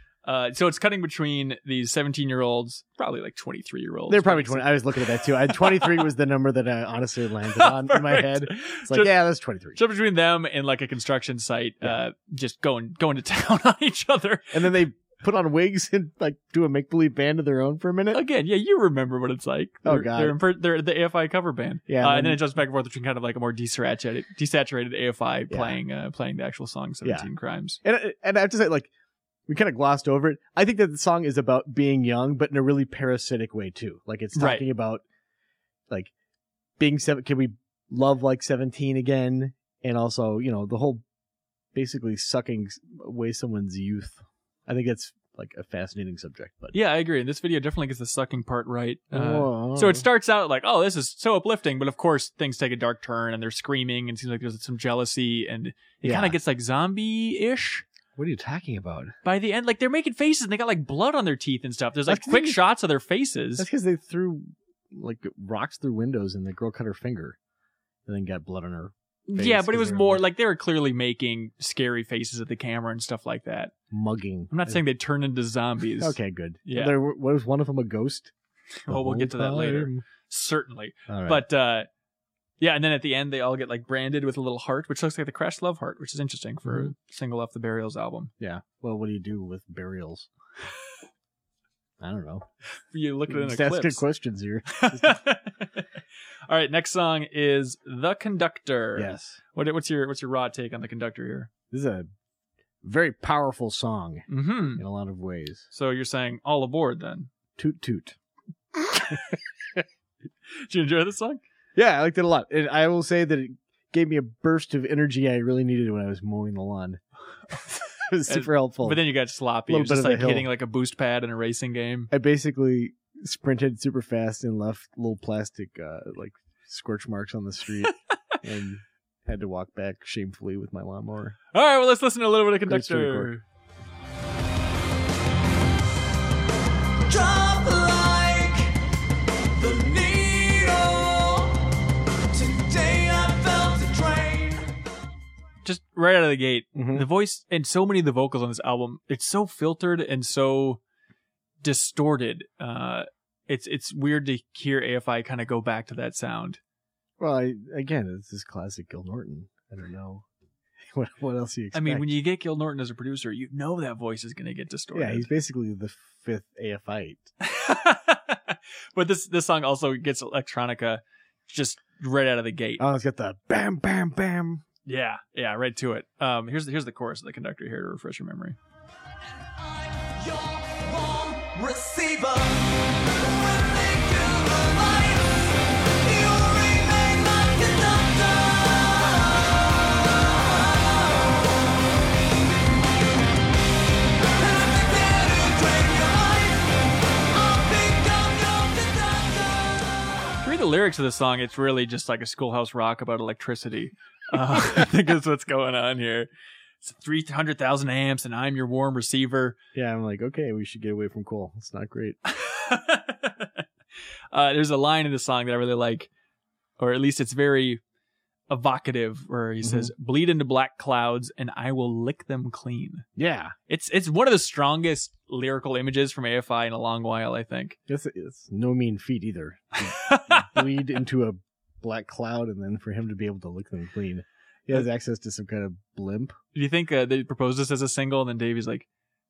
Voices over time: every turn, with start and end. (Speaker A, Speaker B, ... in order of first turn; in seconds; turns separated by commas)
Speaker A: 0.2-6.0, Speaker B: 4.1-9.8, Speaker A: 7.5-9.2, Speaker A: 9.8-14.8, Speaker B: 14.5-18.2, Speaker A: 18.1-27.8, Speaker B: 19.8-20.4, Speaker B: 21.9-22.4, Speaker B: 25.5-25.8, Speaker B: 27.0-27.3, Speaker B: 27.8-28.9, Speaker B: 29.5-35.0, Speaker A: 34.4-34.7, Speaker B: 36.8-41.0, Speaker B: 41.7-46.8, Speaker A: 46.7-57.9, Speaker B: 49.1-50.1, Speaker B: 56.0-56.4, Speaker B: 58.2-59.2, Speaker A: 59.2-63.7, Speaker B: 62.1-62.6, Speaker B: 63.6-67.4, Speaker B: 68.1-70.2, Speaker A: 69.3-73.7, Speaker B: 73.9-74.8, Speaker A: 74.5-77.0, Speaker B: 76.0-78.3, Speaker A: 78.8-81.9, Speaker B: 78.9-80.0, Speaker B: 81.1-81.5, Speaker A: 82.6-88.3, Speaker B: 86.7-86.9, Speaker B: 88.4-90.3, Speaker B: 92.0-92.5, Speaker A: 92.9-94.0, Speaker B: 93.3-95.2, Speaker A: 94.7-95.9, Speaker A: 96.5-101.5, Speaker B: 99.0-99.4, Speaker B: 101.7-102.1, Speaker B: 102.8-105.7, Speaker A: 104.3-104.8, Speaker A: 105.7-107.3, Speaker B: 107.6-108.2, Speaker B: 109.1-109.8, Speaker A: 110.6-111.4, Speaker B: 111.8-119.0, Speaker A: 118.3-122.1, Speaker B: 119.7-120.5, Speaker B: 122.1-131.4, Speaker A: 131.5-133.4, Speaker B: 132.7-133.3, Speaker C: 137.1-138.8, Speaker C: 139.6-144.8, Speaker A: 145.7-150.8, Speaker B: 146.8-147.1, Speaker A: 151.6-156.6, Speaker B: 157.2-160.3, Speaker B: 160.9-162.2, Speaker A: 161.7-165.3, Speaker B: 164.9-167.3, Speaker A: 167.4-172.8, Speaker B: 172.8-174.6, Speaker A: 174.9-178.6, Speaker C: 179.6-191.7, Speaker C: 194.4-199.6, Speaker A: 200.4-206.3, Speaker A: 206.8-209.6, Speaker B: 209.8-212.2, Speaker A: 212.2-213.7, Speaker A: 214.3-216.1, Speaker A: 216.8-217.8, Speaker A: 218.5-223.1, Speaker B: 219.6-219.9, Speaker B: 223.2-223.6, Speaker A: 223.7-227.8, Speaker B: 227.9-236.4, Speaker A: 229.8-230.7, Speaker A: 236.5-238.9